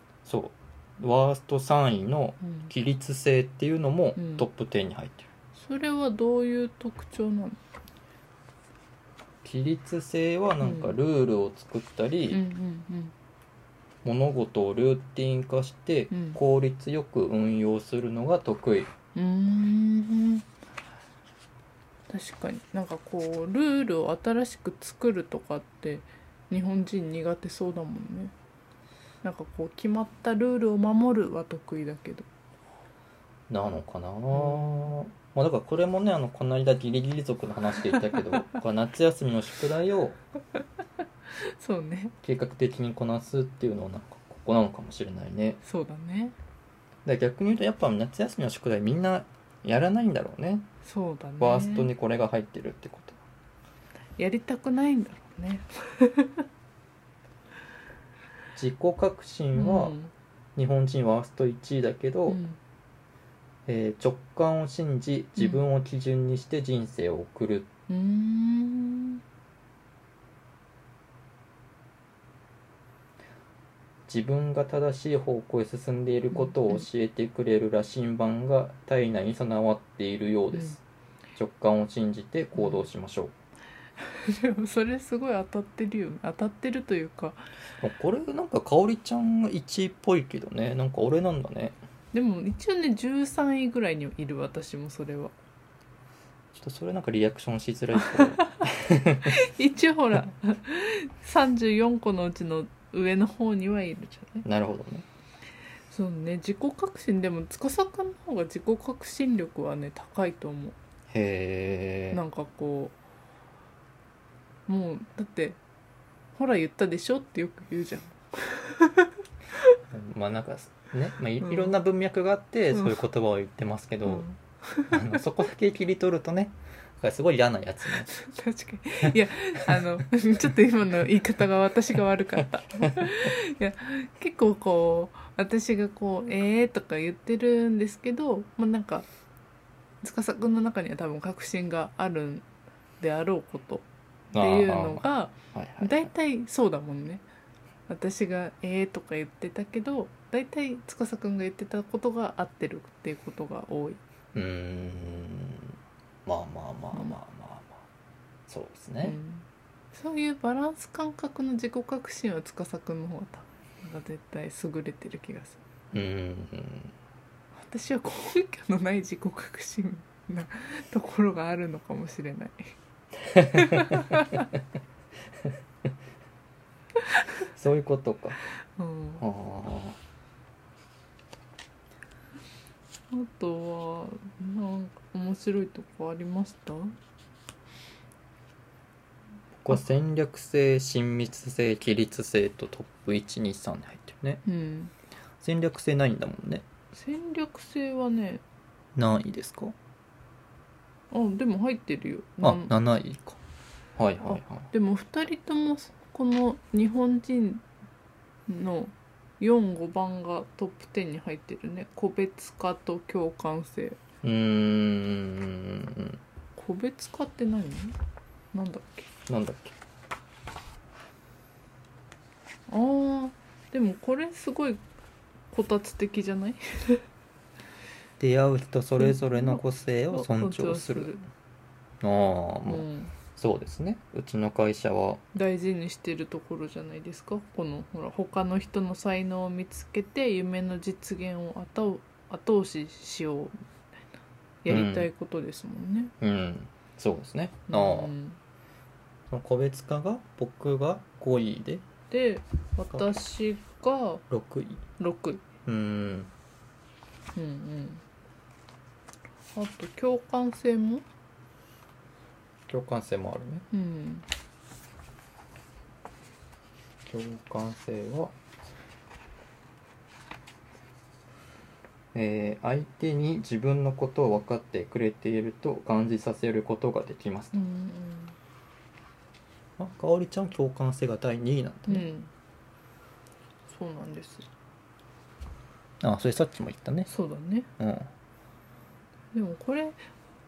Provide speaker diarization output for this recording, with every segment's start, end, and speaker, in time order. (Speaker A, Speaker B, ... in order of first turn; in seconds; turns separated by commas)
Speaker A: 0.3-5.3, Speaker B: 2.4-2.7, Speaker B: 4.2-4.5, Speaker B: 5.5-7.6, Speaker A: 9.4-12.4, Speaker B: 10.6-11.0, Speaker B: 12.3-13.1, Speaker A: 14.0-18.9, Speaker B: 16.1-16.4, Speaker B: 19.1-20.5, Speaker B: 22.1-28.3, Speaker B: 29.2-32.3, Speaker A: 33.5-40.2, Speaker B: 34.3-35.0, Speaker B: 41.4-42.1, Speaker A: 42.2-45.6, Speaker B: 45.6-46.4, Speaker A: 47.1-50.7, Speaker B: 50.8-51.9, Speaker A: 51.4-53.2, Speaker B: 54.2-56.5, Speaker A: 58.5-60.0, Speaker B: 59.5-60.1, Speaker A: 60.6-62.4, Speaker B: 62.3-62.6, Speaker A: 63.7-67.7, Speaker B: 65.4-65.6, Speaker B: 67.9-69.2, Speaker A: 74.1-80.8, Speaker B: 76.3-76.9, Speaker A: 81.4-83.3, Speaker B: 82.6-82.8, Speaker B: 84.0-87.4, Speaker A: 87.8-91.8, Speaker B: 92.1-95.3, Speaker A: 96.5-99.3, Speaker B: 98.1-98.5, Speaker B: 99.2-104.5, Speaker A: 104.4-105.0, Speaker B: 105.9-110.8, Speaker A: 111.1-112.2, Speaker B: 112.1-113.0, Speaker B: 114.7-115.6, Speaker B: 116.3-119.1, Speaker A: 119.9-124.3, Speaker B: 121.4-121.7, Speaker B: 122.7-123.0, Speaker B: 124.0-125.2, Speaker A: 124.9-128.1, Speaker B: 128.1-139.1, Speaker B: 140.0-142.5, Speaker B: 143.0-143.8, Speaker A: 144.3-146.1, Speaker B: 144.4-147.2, Speaker B: 147.9-154.0, Speaker A: 154.3-155.7, Speaker A: 156.3-157.8, Speaker A: 158.5-159.2, Speaker B: 159.0-165.6, Speaker A: 165.9-166.9, Speaker B: 167.6-172.7, Speaker B: 173.5-174.4, Speaker A: 177.5-178.4, Speaker B: 178.8-179.2, Speaker A: 179.2-180.0, Speaker B: 183.1-186.9, Speaker A: 189.6-194.4, Speaker B: 194.4-194.9, Speaker A: 195.4-196.7, Speaker B: 196.9-198.4, Speaker A: 199.0-199.7, Speaker B: 201.1-202.8, Speaker A: 202.4-203.4, Speaker A: 204.0-204.7, Speaker B: 204.2-207.6, Speaker B: 208.5-214.0, Speaker A: 214.2-216.2, Speaker B: 216.6-218.0, Speaker B: 218.5-219.1, Speaker A: 219.3-219.8, Speaker B: 222.7-224.8, Speaker B: 225.5-227.0, Speaker A: 228.2-231.1, Speaker B: 229.0-231.2, Speaker A: 232.0-235.2, Speaker B: 232.7-233.2, Speaker B: 235.3-243.5, Speaker B: 244.6-246.1, Speaker A: 244.7-245.1, Speaker A: 246.2-248.1, Speaker B: 247.7-248.4, Speaker A: 249.3-251.8, Speaker B: 252.1-254.2, Speaker A: 254.3-254.8, Speaker B: 255.0-255.5, Speaker A: 255.7-256.3, Speaker B: 257.4-258.0, Speaker B: 259.6-261.0, Speaker A: 262.7-263.6, Speaker B: 263.7-264.2, Speaker A: 267.1-268.3, Speaker A: 272.1-277.6, Speaker B: 277.5-278.4, Speaker A: 279.8-282.1, Speaker B: 281.9-282.3, Speaker B: 283.7-284.5, Speaker A: 286.0-287.1, Speaker B: 287.1-287.7, Speaker A: 287.8-288.1, Speaker B: 289.3-290.0